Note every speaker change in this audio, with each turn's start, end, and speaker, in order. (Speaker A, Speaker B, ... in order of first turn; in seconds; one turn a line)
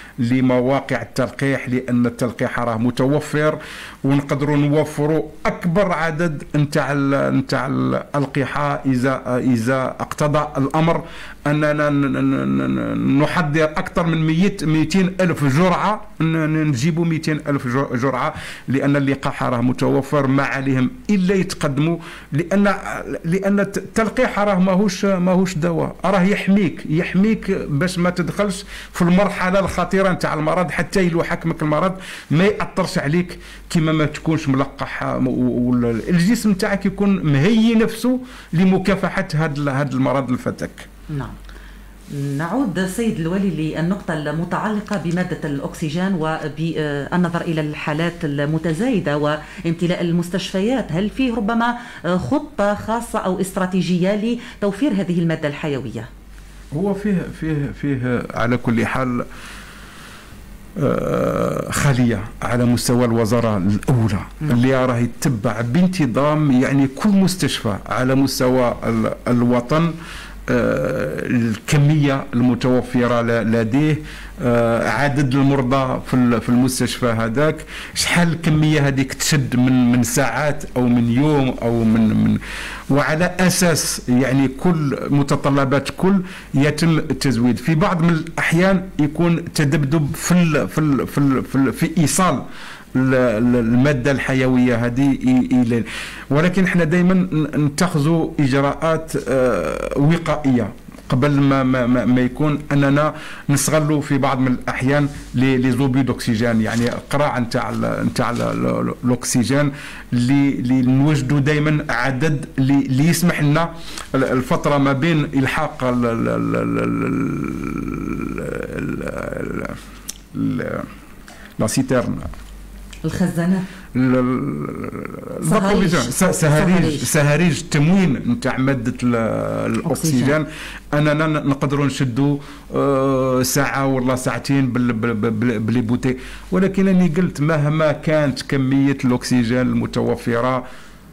Speaker A: 0.2-40.9
Speaker B: 42.1-56.1
Speaker A: 56.7-59.2
Speaker A: 60.8-69.9
Speaker A: 70.5-119.8
Speaker A: 120.3-120.9
Speaker A: 121.6-122.3
Speaker B: 123.0-123.6
Speaker A: 123.9-140.6
Speaker B: 125.4-127.1
Speaker B: 129.8-130.4